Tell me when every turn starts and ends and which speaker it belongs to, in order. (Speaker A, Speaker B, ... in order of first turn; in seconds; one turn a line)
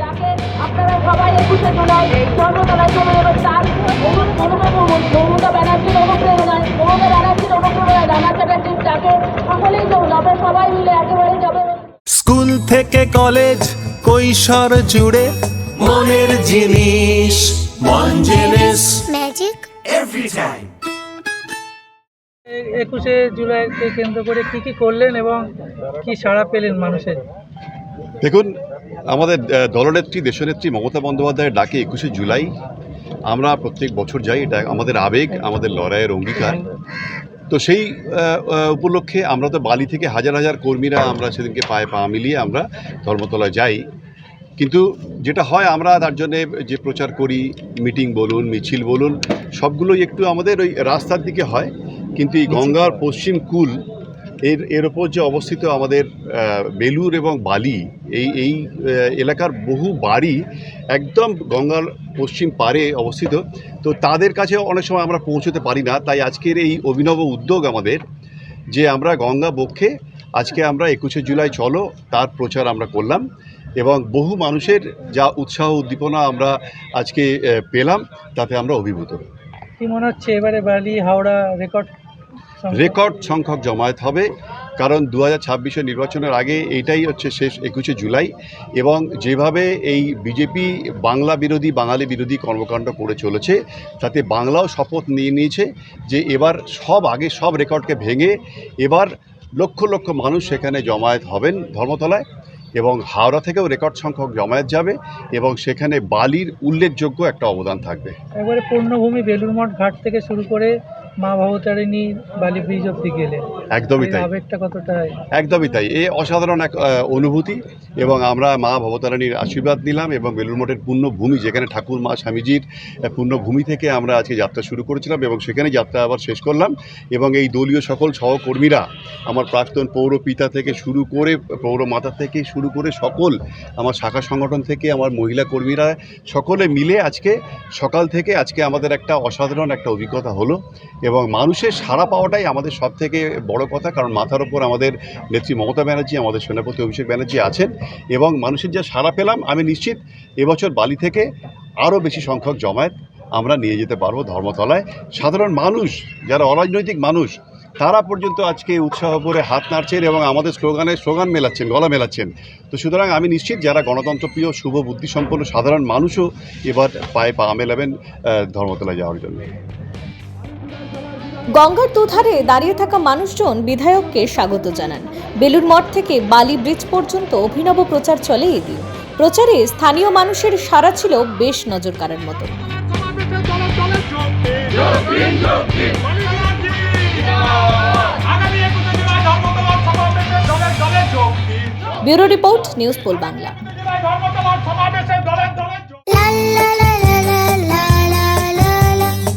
Speaker A: 0.4-11.4
Speaker B: 12.1-19.0
Speaker C: 18.5-19.7
Speaker B: 20.1-20.6
Speaker D: 22.5-25.4
Speaker D: 26.0-27.2
Speaker E: 28.2-28.6
Speaker E: 29.1-32.5
Speaker E: 33.3-36.6
Speaker E: 37.5-43.8
Speaker E: 44.6-53.8
Speaker E: 54.4-60.4
Speaker E: 60.9-68.0
Speaker E: 68.7-73.2
Speaker E: 73.8-79.3
Speaker D: 79.8-81.9
Speaker D: 82.6-83.0
Speaker E: 82.7-84.3
Speaker E: 84.8-102.2
Speaker E: 102.8-108.1
Speaker D: 108.4-113.4
Speaker E: 113.8-114.3
Speaker D: 114.0-115.2
Speaker E: 115.3-151.2
Speaker E: 151.8-169.5
Speaker F: 171.6-182.5
Speaker B: 183.1-191.6
Speaker F: 192.0-193.6
Speaker B: 194.3-195.6
Speaker C: 196.1-199.2